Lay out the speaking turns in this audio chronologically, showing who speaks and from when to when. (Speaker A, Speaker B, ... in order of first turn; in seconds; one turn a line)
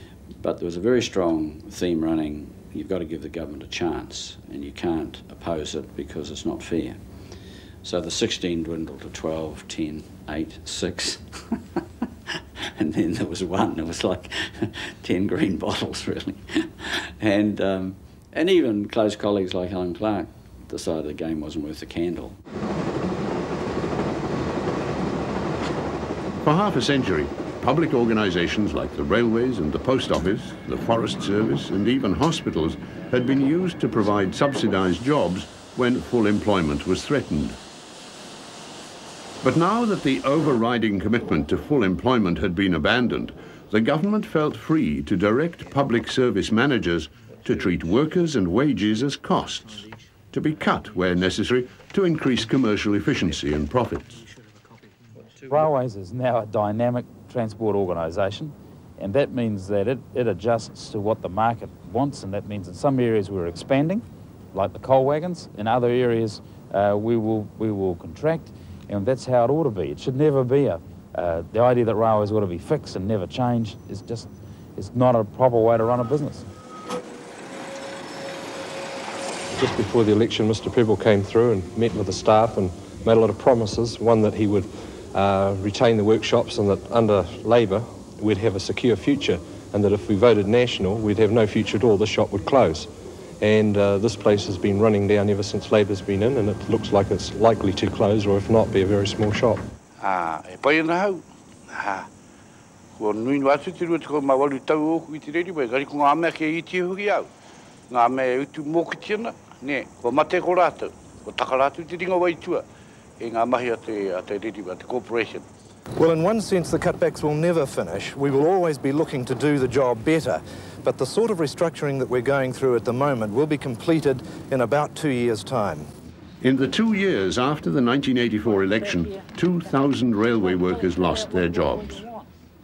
Speaker A: 0.4-11.4
Speaker A: 12.8-16.6
Speaker A: 17.2-22.4
Speaker B: 26.4-37.6
Speaker B: 39.4-54.2
Speaker C: 55.5-76.5
Speaker D: 79.5-99.6
Speaker E: 100.0-102.1
Speaker E: 103.0-107.3
Speaker E: 107.9-112.6
Speaker E: 113.2-115.4
Speaker F: 115.9-125.9
Speaker B: 126.4-132.1